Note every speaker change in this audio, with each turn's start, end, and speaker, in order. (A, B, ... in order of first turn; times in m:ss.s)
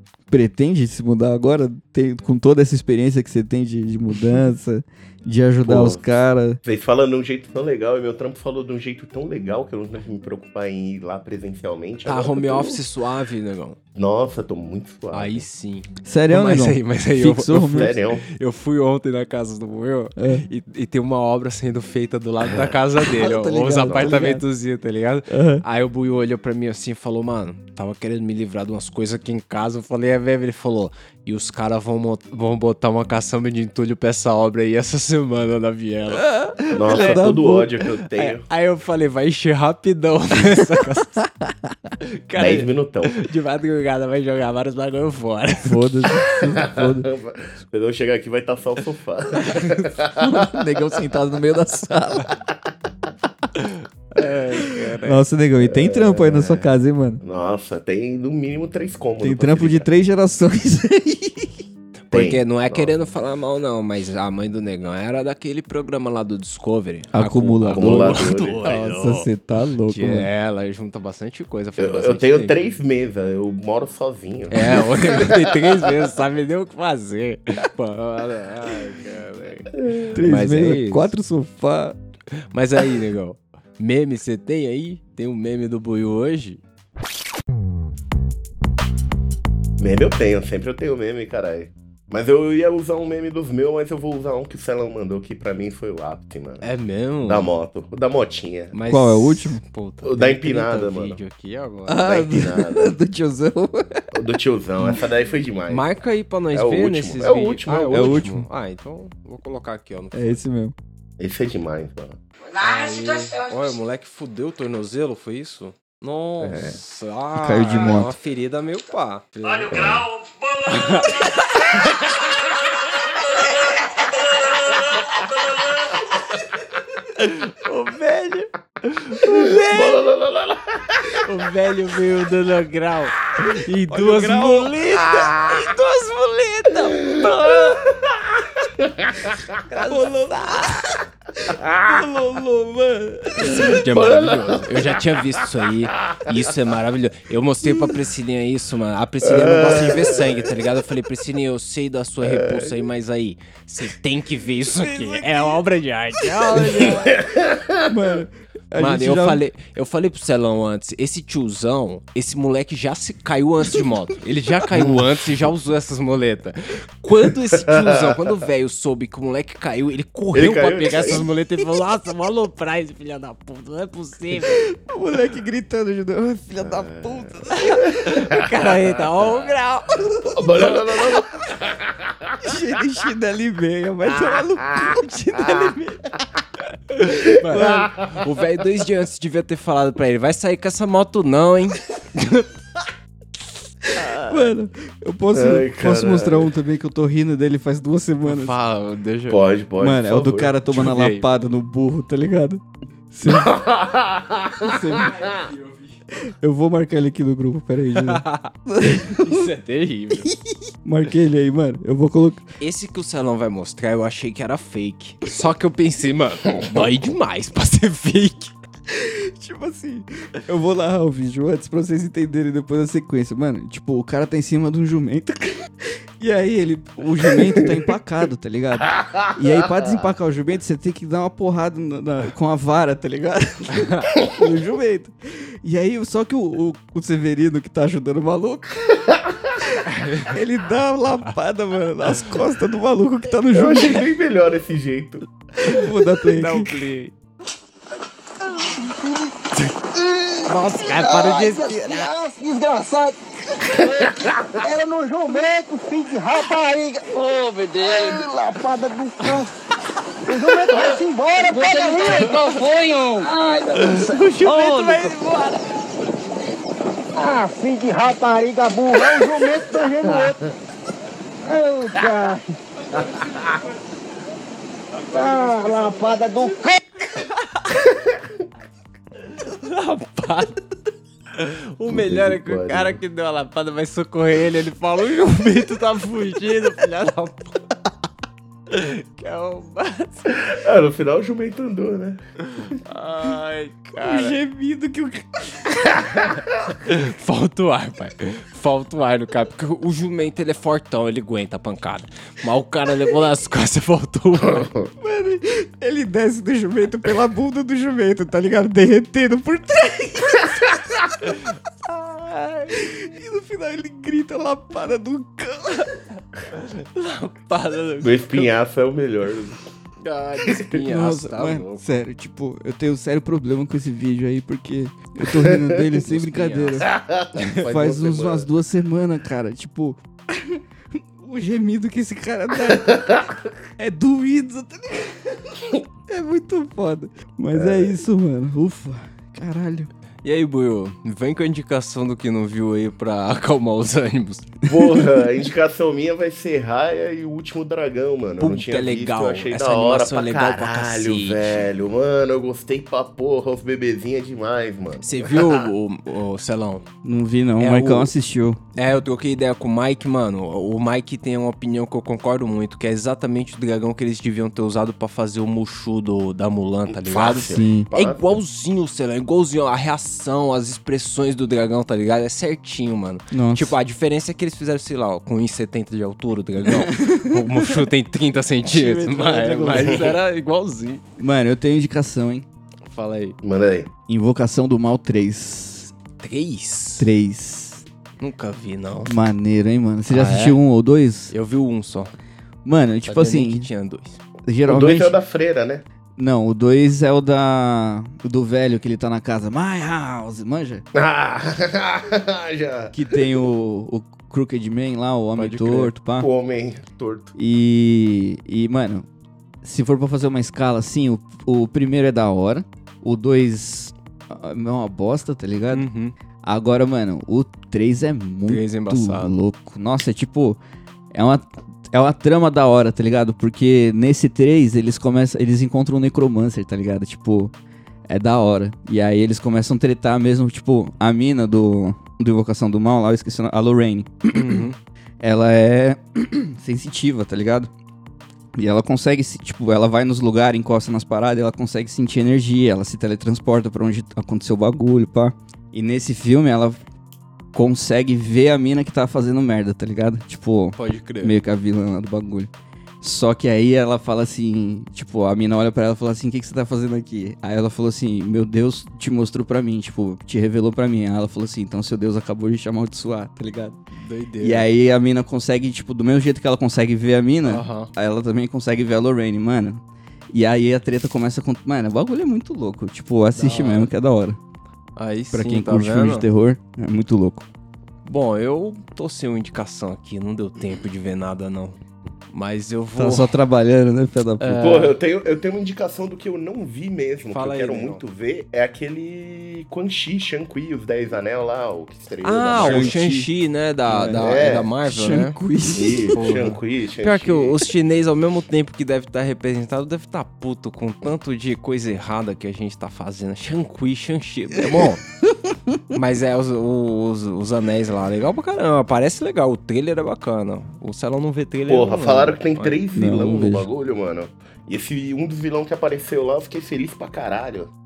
0:00.3-0:06.6 A
0:05.6-0:06.1 B
0:06.6-0:12.8 B
0:12.0-0:13.8 C
0:14.0-0:15.4 B
0:15.1-0:36.3 C
0:16.0-0:18.0 A
0:17.7-0:18.2 B
0:20.2-0:20.4 A
0:23.1-0:24.4 A
0:23.8-0:24.2 B
0:25.3-0:25.6 A
0:36.2-0:37.9 A
0:36.7-0:38.4 B
0:36.9-0:37.2 C
0:38.2-0:41.2 C
0:40.8-0:41.8 A
0:42.0-0:46.3 C
0:42.4-0:43.2 B
0:45.6-0:47.1 A
0:46.5-0:50.5 B
0:49.4-0:49.9 C
0:50.2-0:52.4 A
0:53.6-0:55.2 C
0:54.6-0:57.2 A
0:55.6-0:59.9 B
0:59.2-1:01.6 A
1:02.1-1:09.3 C
1:02.1-1:02.9 B
1:07.1-1:10.3 A
1:07.7-1:08.6 B
1:09.9-1:12.6 C
1:11.8-1:15.7 B
1:14.5-1:21.1 C
1:19.7-1:20.1 B
1:20.1-1:22.0 A
1:22.5-1:26.6 C
1:29.8-1:36.7 B
1:36.6-1:37.5 C
1:37.2-1:38.7 B
1:38.7-1:42.0 C
1:38.9-1:39.6 A
1:40.0-1:41.2 B
1:41.9-1:44.0 A
1:42.0-1:42.9 B
1:44.1-1:45.8 B
1:45.7-1:50.4 C
1:46.5-1:48.2 B
1:47.9-1:48.5 A
1:50.1-1:50.8 A
1:51.2-1:52.2 B
1:52.5-2:01.9 C
1:56.4-1:56.8 B
1:57.4-1:58.1 A
1:59.7-2:00.1 B
2:07.2-2:10.0 C
2:09.2-2:11.3 B
2:11.2-2:17.9 C
2:13.4-2:14.8 A
2:15.2-2:15.6 B
2:17.0-2:17.3 B
2:18.4-2:19.6 B
2:19.7-2:20.8 C
2:19.7-2:23.8 A
2:21.6-2:22.0 B
2:23.4-2:37.2 C
2:23.5-2:25.2 B
2:26.0-2:26.3 B
2:29.2-2:30.5 B
2:32.2-2:32.8 B
2:34.8-2:35.6 A
2:36.2-2:37.2 A
2:36.9-2:37.8 B
2:37.8-2:39.4 A
2:38.8-2:54.7 C
2:44.7-2:45.0 A
2:47.6-2:48.2 B
2:50.3-2:51.3 B
2:54.4-2:58.1 A
2:56.6-2:58.8 B
2:57.6-3:00.4 C
3:00.2-3:02.4 B
3:02.4-3:06.2 A
3:06.9-3:12.5 C
3:07.4-3:07.9 A
3:07.6-3:08.1 B
3:14.0-3:14.4 C
3:14.2-3:18.6 A
3:15.3-3:16.5 B
3:18.2-3:19.4 C
3:19.3-3:20.5 B
3:19.8-3:23.5 A
3:20.7-3:21.4 C
3:23.3-3:25.2 B
3:24.6-3:25.2 A
3:25.0-3:25.9 C
3:26.2-3:29.4 A
3:28.0-3:30.3 C
3:30.2-3:32.4 A
3:32.6-3:38.5 C
3:38.9-3:59.0 A
3:53.8-3:54.1 C
3:59.1-3:59.3 B
3:59.9-4:00.3 C
4:00.2-4:04.1 A
4:03.5-4:05.2 B
4:05.6-4:06.8 A
4:05.6-4:07.1 C
4:09.9-4:19.5 D
4:10.5-4:12.0 C
4:11.7-4:12.0 A
4:20.2-4:25.0 D
4:23.8-4:25.6 C
4:23.9-4:25.4 A
4:27.1-4:30.5 D
4:31.4-4:33.0 D
4:35.1-4:37.1 D
4:39.4-4:40.6 C
4:41.4-4:47.6 C
4:41.9-4:43.0 B
4:48.7-4:50.3 C
4:50.4-4:52.2 B
4:52.6-4:54.3 C
4:54.0-4:55.8 A
4:56.8-5:04.7 C
5:05.0-5:11.4 A
5:11.9-5:12.8 C
5:12.8-5:16.1 A
5:16.5-5:18.5 C
5:18.0-5:19.6 B
5:20.0-5:21.8 C
5:20.8-5:33.0 A
5:25.4-5:25.8 B
5:26.0-5:26.9 C
5:26.8-5:28.5 B
5:32.9-5:33.3 B
5:33.8-5:39.9 A
5:37.5-5:38.0 B
5:40.2-5:44.5 C
5:44.7-5:55.7 B
5:44.7-5:45.3 A
5:48.4-5:51.7 C
5:55.0-5:56.9 C
5:57.0-5:58.6 A
5:57.6-5:58.1 C
5:58.8-6:21.0 C
6:06.9-6:08.4 B
6:07.5-6:07.9 A
6:13.3-6:13.7 A
6:16.7-6:17.8 A
6:18.6-6:20.2 A
6:21.2-6:22.5 A
6:22.9-6:23.4 C
6:23.4-6:23.9 B
6:24.1-6:25.9 A
6:26.2-6:27.1 C
6:27.0-6:27.8 A
6:28.2-6:29.2 C
6:29.1-6:31.3 A
6:30.1-6:30.6 C
6:31.3-6:32.1 C
6:32.6-6:33.7 A
6:33.0-6:34.2 C
6:34.5-6:35.2 A
6:34.7-6:35.8 B
6:36.2-6:40.8 A
6:40.9-6:43.1 B
6:42.9-6:46.3 A
6:45.4-6:45.9 C
6:46.2-6:47.3 B
6:47.4-6:49.1 A
6:49.6-6:55.8 A
6:55.7-6:56.1 C
6:56.4-7:00.6 A
6:58.5-6:59.4 C
7:01.1-7:07.5 A
7:08.1-7:14.7 A
7:14.3-7:14.8 C
7:15.2-7:17.7 A
7:18.6-7:26.8 A
7:27.5-7:32.5 A
7:30.8-7:31.4 C
7:33.0-7:43.8 A
7:44.0-7:44.7 C
7:44.4-7:54.4 A
7:47.4-7:47.9 C
7:53.4-7:53.9 C
7:55.0-7:56.3 C
7:55.3-7:57.4 A
7:58.0-8:03.4 C
8:03.0-8:04.8 A
8:04.4-8:04.9 C
8:04.6-8:13.0 B
8:07.3-8:08.0 C
8:12.2-8:15.4 C
8:12.6-8:13.3 A
8:13.9-8:14.3 A
8:14.2-8:14.7 B
8:14.8-8:16.2 A
8:15.7-8:17.6 B
8:16.1-8:25.0 C
8:24.8-8:25.8 A
8:25.9-8:32.8 C
8:31.7-8:37.7 B
8:32.9-8:33.7 A